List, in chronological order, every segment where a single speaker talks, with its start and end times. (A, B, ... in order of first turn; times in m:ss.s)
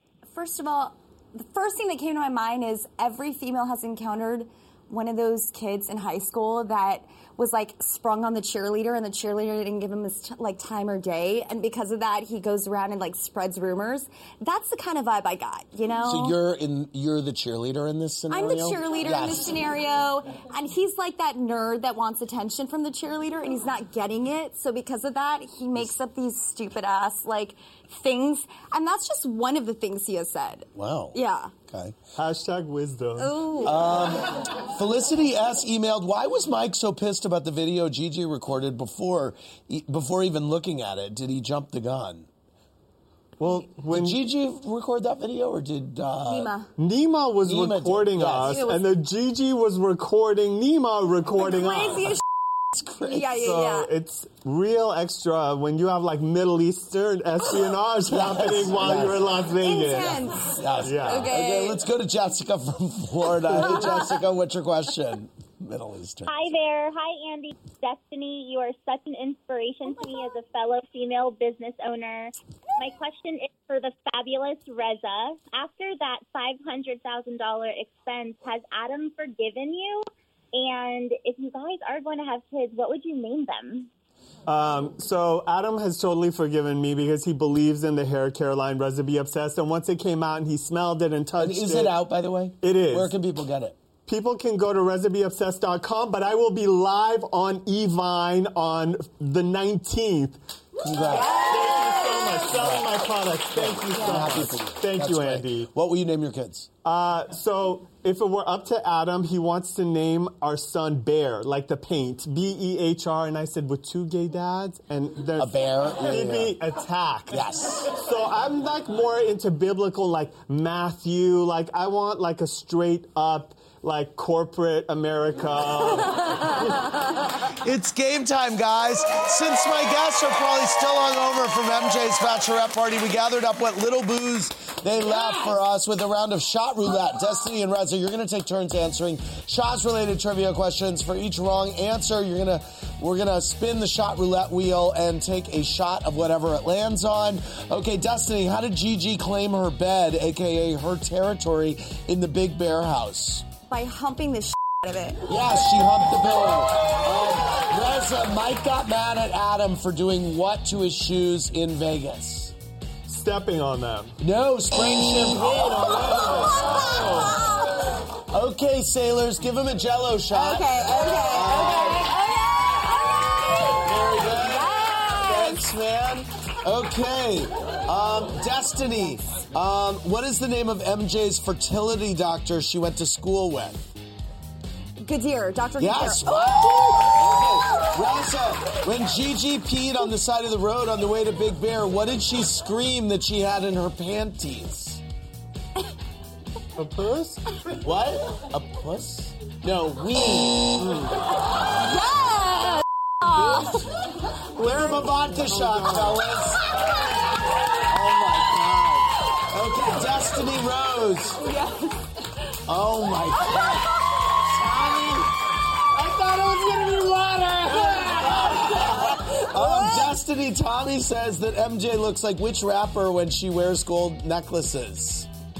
0:00.3-0:16.4 A
0:16.0-0:19.6 B
0:18.3-0:31.5 A
0:30.7-0:32.0 B
0:32.2-0:33.7 C
0:33.2-0:33.8 A
0:33.6-0:42.3 B
0:43.4-0:44.2 C
0:43.9-0:46.5 B
0:46.2-0:46.7 A
0:46.8-0:52.2 C
0:47.4-0:48.7 B
0:48.4-0:48.9 A
0:51.4-0:52.2 A
0:52.7-0:53.5 B
0:53.0-0:53.9 A
0:53.4-1:00.2 C
0:58.1-0:59.3 B
0:59.6-1:01.8 A
1:00.4-1:06.5 B
1:00.8-1:01.3 C
1:03.6-1:04.0 A
1:06.3-1:23.9 D
1:24.4-1:32.0 C
1:31.4-1:33.8 B
1:32.6-1:33.1 C
1:34.0-1:40.4 C
1:40.8-1:41.4 B
1:41.0-1:42.8 A
1:41.1-1:45.7 C
1:42.5-1:42.9 B
1:43.5-1:46.7 B
1:44.0-1:44.3 A
1:46.8-2:06.3 C
1:55.4-1:56.6 B
1:57.3-1:57.9 B
2:07.6-2:33.4 B
2:33.7-2:35.3 A
2:35.3-2:42.5 B
2:43.1-2:44.2 C
2:44.2-2:47.1 B
2:45.5-2:47.3 C
2:46.6-2:47.7 A
2:48.3-2:52.1 B
2:50.3-2:55.6 A
2:53.8-3:03.9 B
3:05.0-3:07.9 A
3:05.8-3:15.0 B
3:16.8-3:17.4 C
3:17.8-3:20.8 B
3:20.7-3:21.2 C
3:21.8-3:23.8 A
3:24.5-3:26.6 B
3:25.4-3:26.2 C
3:27.9-3:31.4 B
3:31.4-3:32.0 A
3:32.7-3:33.9 B
3:33.4-3:33.8 A
3:34.6-3:35.2 A
3:35.9-3:38.5 C
3:37.7-3:40.1 A
3:37.7-3:45.3 B